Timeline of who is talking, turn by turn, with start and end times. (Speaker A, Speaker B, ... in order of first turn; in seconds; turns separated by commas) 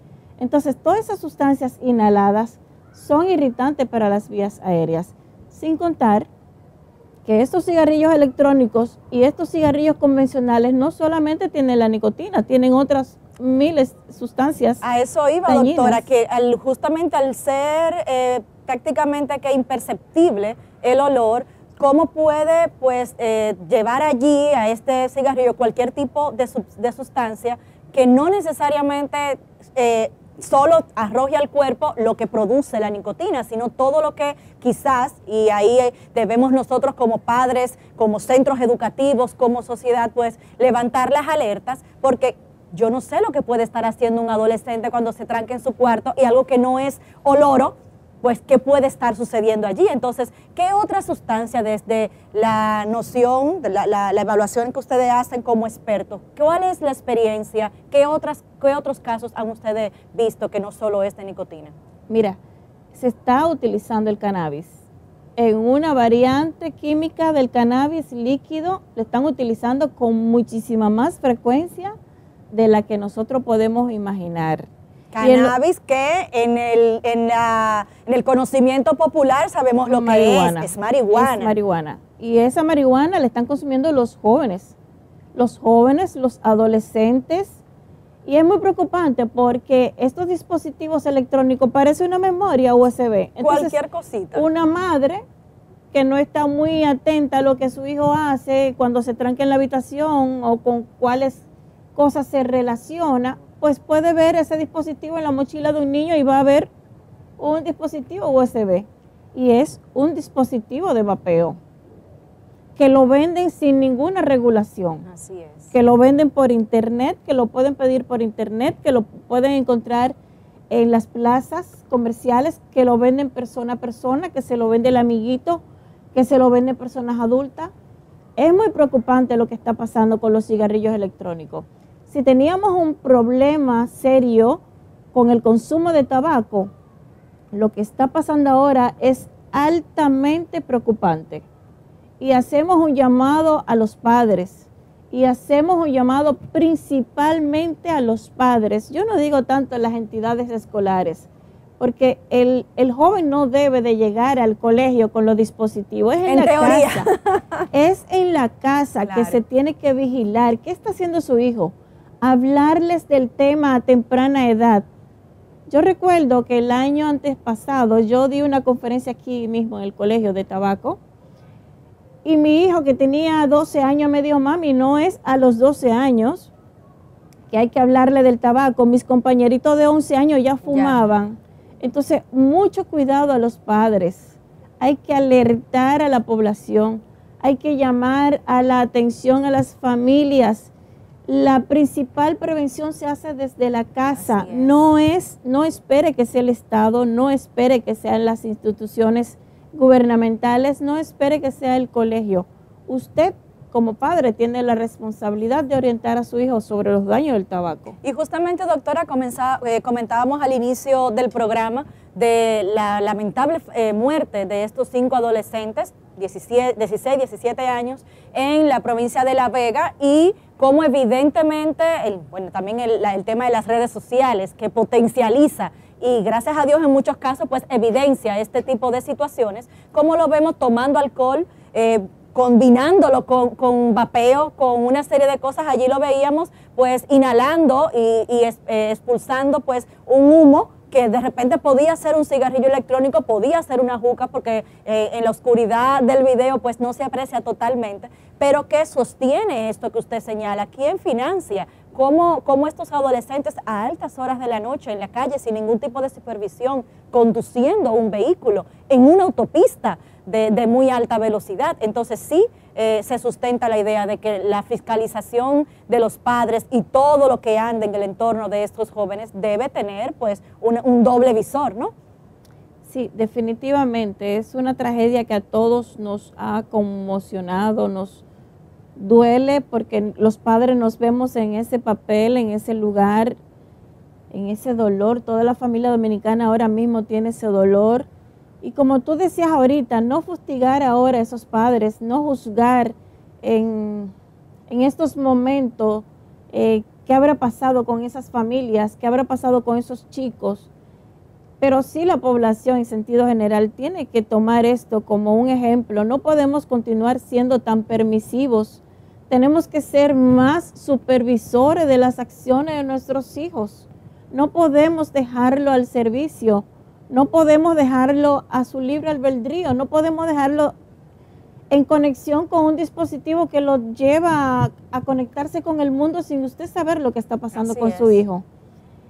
Speaker A: 0.4-6.3, Speaker A: 7.2-14.8, Speaker B: 14.8-61.7, Speaker A: 15.4-16.0, Speaker A: 62.1-62.4, Speaker A: 62.9-64.8, Speaker A: 65.4-72.0, Speaker A: 72.5-74.7, Speaker B: 75.1-81.5, Speaker A: 75.2-75.5, Speaker A: 79.9-84.7, Speaker A: 85.3-87.6, Speaker A: 88.2-93.8, Speaker B: 93.4-94.5, Speaker A: 94.3-95.2, Speaker A: 95.9-101.4, Speaker A: 101.9-106.7, Speaker A: 107.4-111.6, Speaker A: 112.8-115.0, Speaker B: 115.0-115.7, Speaker A: 115.7-120.1, Speaker A: 120.7-125.6, Speaker A: 126.1-127.7, Speaker A: 128.4-134.6, Speaker A: 135.1-136.7, Speaker A: 137.5-141.4, Speaker A: 142.2-151.3, Speaker A: 151.8-157.1, Speaker B: 156.3-157.7, Speaker A: 157.7-164.9, Speaker B: 159.0-159.4, Speaker A: 165.7-171.0, Speaker A: 172.2-176.5, Speaker A: 177.5-190.7, Speaker B: 180.6-181.0, Speaker A: 191.3-208.0, Speaker B: 194.1-194.7, Speaker B: 208.0-271.9, Speaker A: 272.9-278.2, Speaker A: 278.9-283.4, Speaker A: 284.3-288.1, Speaker A: 288.6-294.1, Speaker A: 294.7-300.7, Speaker A: 301.6-320.7, Speaker A: 321.7-328.4, Speaker B: 327.5-328.2